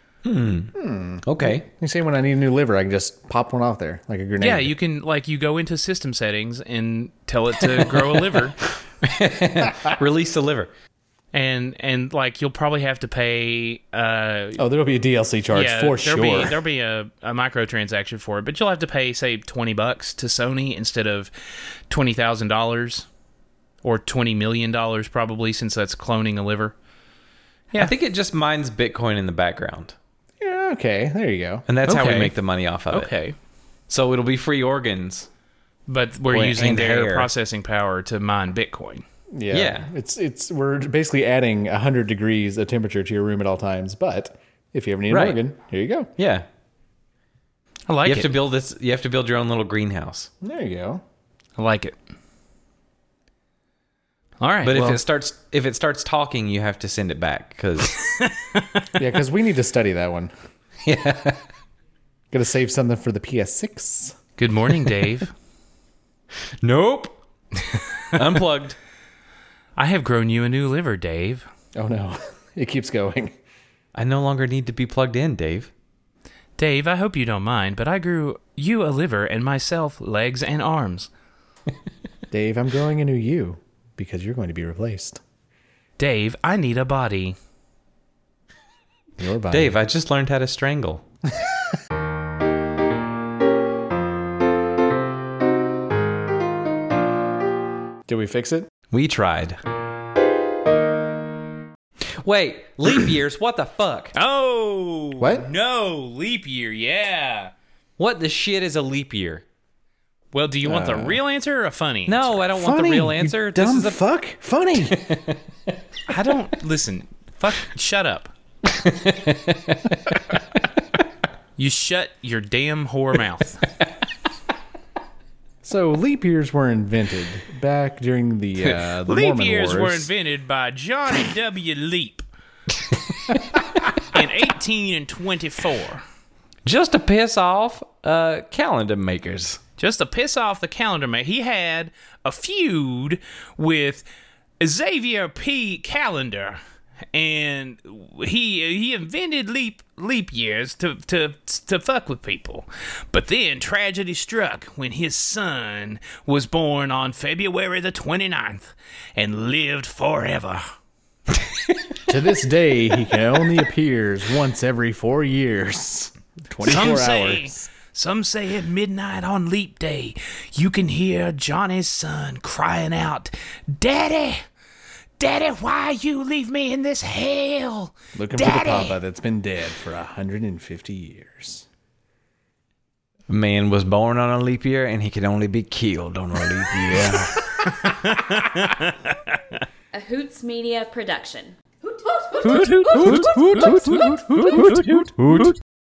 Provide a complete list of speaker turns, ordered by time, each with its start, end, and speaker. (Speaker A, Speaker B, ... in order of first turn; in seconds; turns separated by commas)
Speaker A: 0.2-1.6, Speaker B: 0.8-4.7, Speaker C: 4.4-8.6, Speaker A: 9.0-10.7, Speaker C: 11.3-14.6, Speaker B: 14.6-16.6, Speaker C: 15.5-21.3, Speaker C: 21.9-23.1, Speaker C: 23.8-26.7, Speaker A: 27.7-29.9, Speaker B: 30.4-31.6, Speaker A: 31.6-33.1, Speaker C: 31.9-32.3, Speaker C: 32.9-33.3, Speaker A: 33.9-35.3, Speaker C: 35.9-39.0, Speaker A: 36.3-37.3, Speaker B: 39.3-46.1, Speaker A: 39.5-39.9, Speaker A: 45.1-45.4, Speaker A: 46.2-46.5, Speaker C: 47.9-48.3, Speaker A: 48.0-50.3, Speaker B: 50.4-51.0, Speaker C: 51.6-52.0, Speaker C: 54.4-55.0, Speaker A: 54.6-58.1, Speaker C: 58.2-58.8, Speaker B: 59.0-60.3, Speaker A: 60.8-61.4, Speaker B: 62.3-64.2, Speaker C: 64.4-65.3, Speaker A: 66.6-67.2, Speaker A: 68.1-68.8, Speaker C: 69.8-71.5, Speaker B: 71.8-73.3, Speaker A: 73.9-75.7, Speaker C: 76.6-81.1, Speaker B: 82.3-85.2, Speaker C: 86.0-87.3, Speaker B: 89.2-89.8, Speaker A: 89.5-91.0, Speaker B: 98.0-98.7, Speaker A: 98.9-99.6, Speaker A: 102.2-104.1, Speaker C: 104.1-107.5, Speaker B: 105.2-105.5, Speaker A: 108.0-109.4, Speaker C: 110.3-112.4, Speaker B: 110.6-111.2, Speaker A: 112.1-114.0, Speaker B: 112.5-115.1, Speaker A: 114.8-115.4, Speaker C: 116.1-118.3, Speaker A: 118.6-120.2, Speaker C: 121.6-123.6, Speaker B: 125.6-130.1, Speaker C: 128.6-132.2, Speaker C: 134.1-136.0, Speaker A: 136.6-139.6, Speaker C: 139.8-144.1, Speaker C: 144.6-146.6, Speaker C: 147.1-160.6, Speaker B: 162.1-167.6, Speaker C: 166.6-174.4, Speaker C: 175.2-179.0, Speaker B: 178.2-181.6, Speaker A: 183.3-187.5, Speaker C: 187.8-189.6, Speaker D: 189.9-194.1, Speaker A: 192.4-195.6, Speaker C: 192.4-194.9, Speaker B: 192.9-195.0